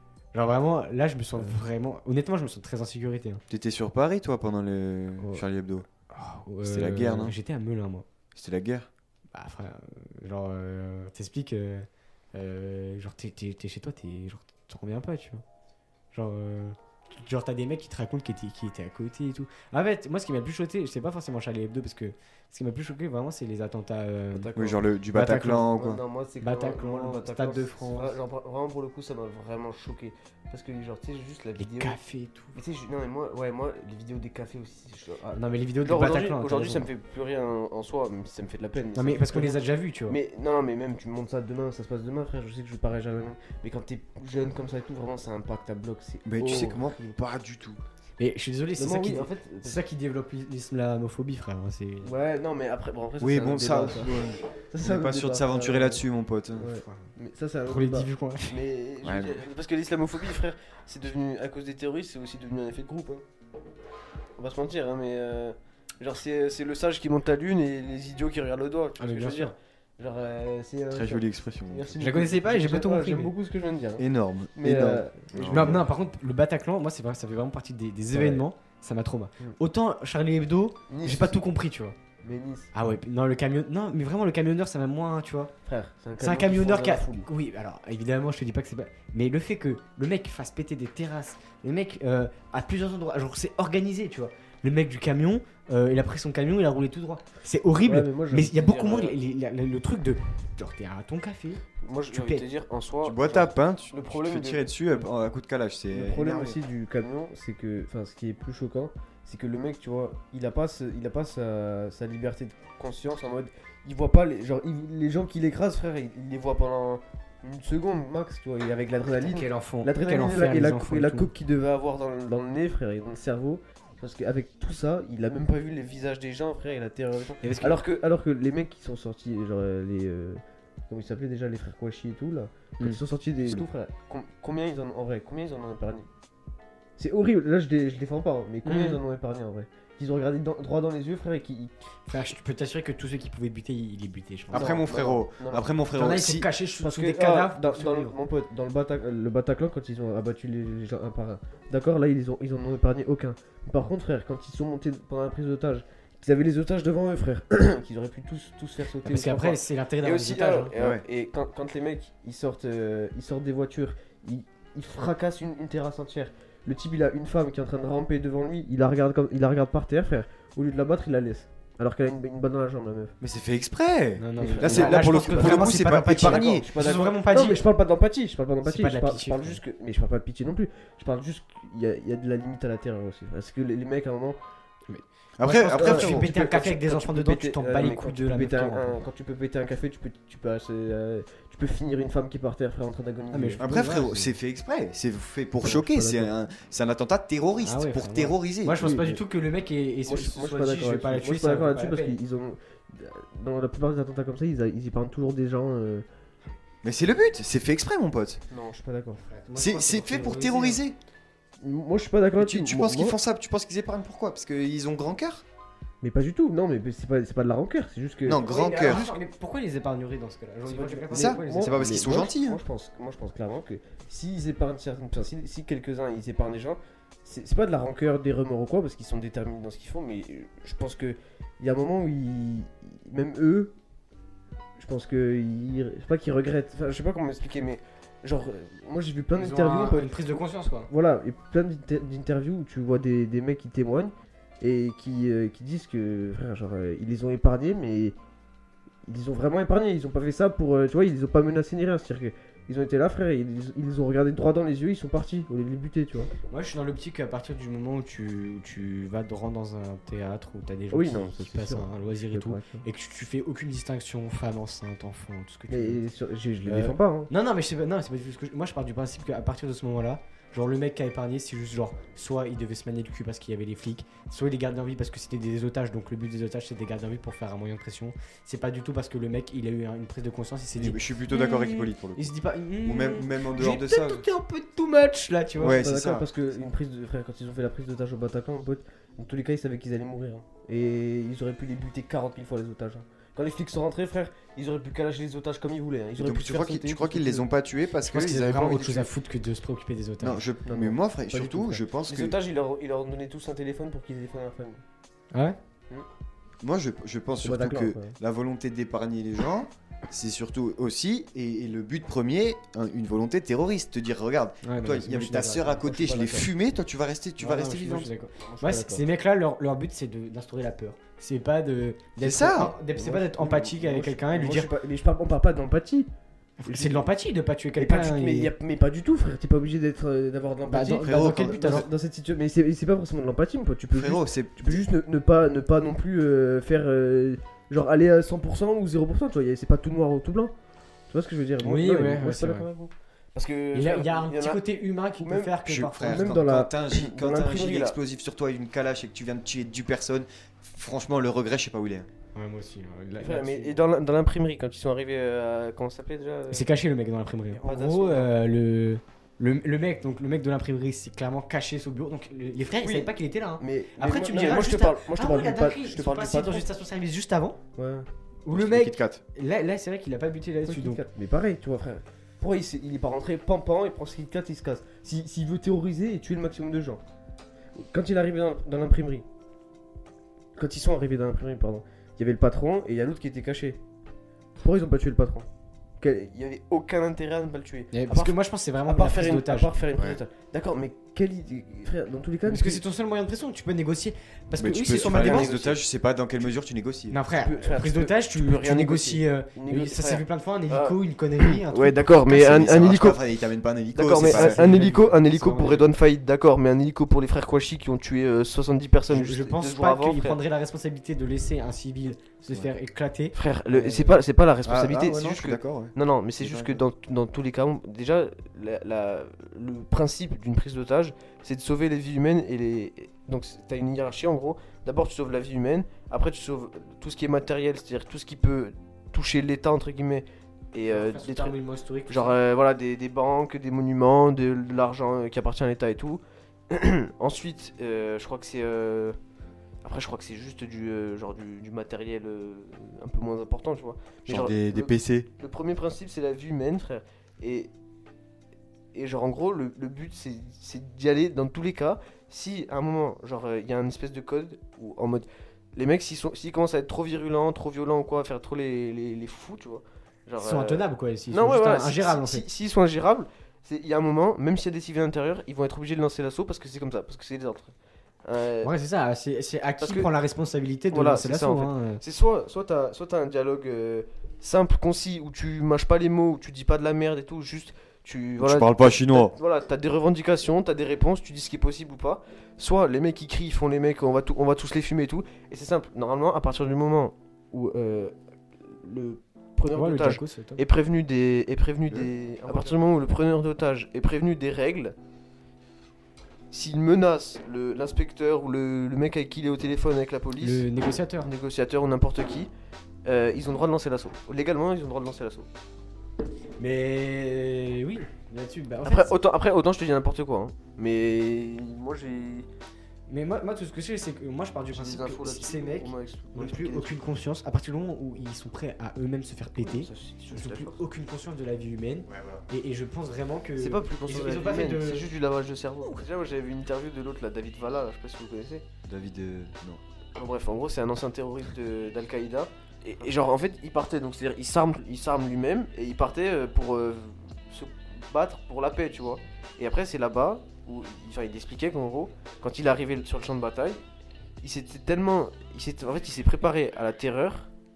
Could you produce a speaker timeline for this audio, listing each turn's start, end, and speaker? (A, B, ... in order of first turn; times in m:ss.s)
0:00.3-0:03.4 A
0:03.5-0:05.9 B
0:06.1-0:08.1 A
0:06.6-0:07.4 B
0:08.4-0:08.9 B
0:09.3-0:15.4 A
0:16.1-0:24.5 A
0:24.3-0:24.8 C
0:24.6-0:26.0 B
0:25.2-0:25.7 A
0:25.5-0:32.0 C
0:26.4-0:28.2 A
0:31.6-0:32.5 A
0:32.6-0:47.0 C
0:35.4-0:36.9 A
0:38.9-0:40.2 A
0:46.2-0:47.8 B
0:48.2-0:52.1 A
0:48.8-0:49.8 C
0:52.0-0:54.2 C
0:53.2-0:56.7 B
0:54.7-0:56.0 C
0:56.6-1:03.2 C
0:56.8-0:57.1 A
0:57.7-0:58.6 A
0:59.0-0:59.4 B
1:04.4-1:14.0 C
1:09.0-1:09.5 A
1:10.9-1:12.0 B
1:12.0-1:13.3 A
1:14.0-1:15.8 B
1:14.6-1:15.8 C
1:15.5-1:22.0 A
1:18.1-1:18.5 C
1:20.9-1:21.4 C
1:22.2-1:22.7 C
1:22.7-1:25.5 A
1:25.7-1:27.3 C
1:26.2-1:42.4 A
1:37.8-1:39.2 C
1:41.8-1:44.6 C
1:43.0-1:46.6 B
1:45.9-2:16.1 C
1:59.2-2:01.3 A
2:07.4-2:07.8 A
2:12.8-2:13.6 A
2:17.0-2:21.7 C
2:18.6-2:19.0 A
2:22.1-2:24.8 A
2:24.5-2:25.7 C
2:24.5-2:26.5 B
2:25.9-2:28.1 A
2:26.8-2:53.1 C
2:39.0-2:40.7 A
2:40.8-2:41.0 B
2:53.2-2:57.0 B
2:54.2-2:57.6 A
2:54.4-3:04.4 C
2:58.6-2:59.6 A
3:04.9-3:08.9 A
3:05.4-3:06.2 B
3:05.8-3:13.9 C
3:13.3-3:14.3 A
3:13.6-3:18.8 B
3:15.6-3:16.3 C
3:17.6-3:22.2 A
3:18.8-3:19.2 C
3:20.1-3:26.0 C
3:26.8-3:28.4 B
3:28.5-3:29.2 C
3:29.2-3:30.8 A
3:29.6-3:31.0 B
3:31.6-3:33.2 C
3:32.4-3:35.4 B
3:36.0-3:39.2 C
3:38.3-3:39.1 B
3:38.4-3:42.0 A
3:40.6-3:53.7 C
3:41.1-3:42.6 B
3:54.8-4:08.2 C
3:59.4-4:00.9 A
4:09.1-4:16.3 C
4:16.5-4:26.0 A
4:20.9-4:22.9 C
4:25.7-4:27.3 C
4:26.6-4:45.8 A
4:40.8-4:42.3 B
4:42.8-4:44.2 B
4:45.6-4:57.5 C
4:45.6-4:46.3 B
4:56.2-4:59.1 B
4:58.0-5:00.4 A
5:00.2-5:02.4 B
5:00.6-5:04.8 C
5:06.6-5:18.1 B
5:07.4-5:08.2 C
5:14.6-5:16.0 A
5:15.8-5:16.5 C
5:17.4-5:24.7 A
5:18.4-5:19.0 C
5:22.2-5:22.7 B
5:22.9-5:26.1 C
5:26.6-5:28.5 A
5:26.7-5:27.1 C
5:27.8-5:40.5 C
5:30.7-5:31.8 A
5:31.0-5:31.9 B
5:33.9-5:34.8 B
5:41.1-5:48.0 C
5:41.6-5:42.7 A
5:43.7-5:46.4 A
5:45.7-5:52.1 B
5:52.4-5:53.8 A
5:53.1-5:56.7 C
5:56.5-6:07.6 A
5:57.5-5:58.3 C
6:02.8-6:06.7 C
6:07.8-6:08.1 C
6:08.5-6:11.0 A
6:08.5-6:09.2 B
6:10.6-6:17.0 C
6:17.8-6:19.2 C
6:20.6-6:23.8 C
6:24.6-6:25.5 C
6:26.0-6:32.8 C
6:27.9-6:29.7 A
6:32.5-6:35.5 A
6:34.6-6:37.2 B
6:34.9-6:35.8 C
6:37.1-6:42.1 A
6:37.4-6:43.2 C
6:42.2-6:44.9 B
6:43.9-6:50.4 C
6:44.2-6:45.9 A
6:49.1-6:54.2 A
6:53.3-7:11.6 C
6:54.6-6:56.8 B
7:10.9-7:12.4 A
7:12.1-7:19.2 C
7:19.8-7:27.7 C
7:24.3-7:25.3 B
7:28.9-7:47.7 C
7:40.4-7:42.4 A
7:48.2-7:48.7 C
7:48.6-7:52.0 A
7:49.8-7:50.1 C
7:50.9-8:15.0 C
7:58.4-7:59.3 B
8:09.7-8:10.6 A
8:16.5-8:20.7 C
8:20.4-8:21.3 A
8:21.2-8:22.5 C
8:23.0-8:25.5 C
8:26.6-8:29.1 A
8:28.8-8:32.5 C
8:33.1-8:45.1 A
8:34.7-8:37.0 C
8:39.6-8:40.8 C
8:42.1-8:42.4 B
8:43.6-8:48.6 C
8:48.9-8:49.8 B
8:50.2-9:03.8 C
9:04.4-9:07.5 C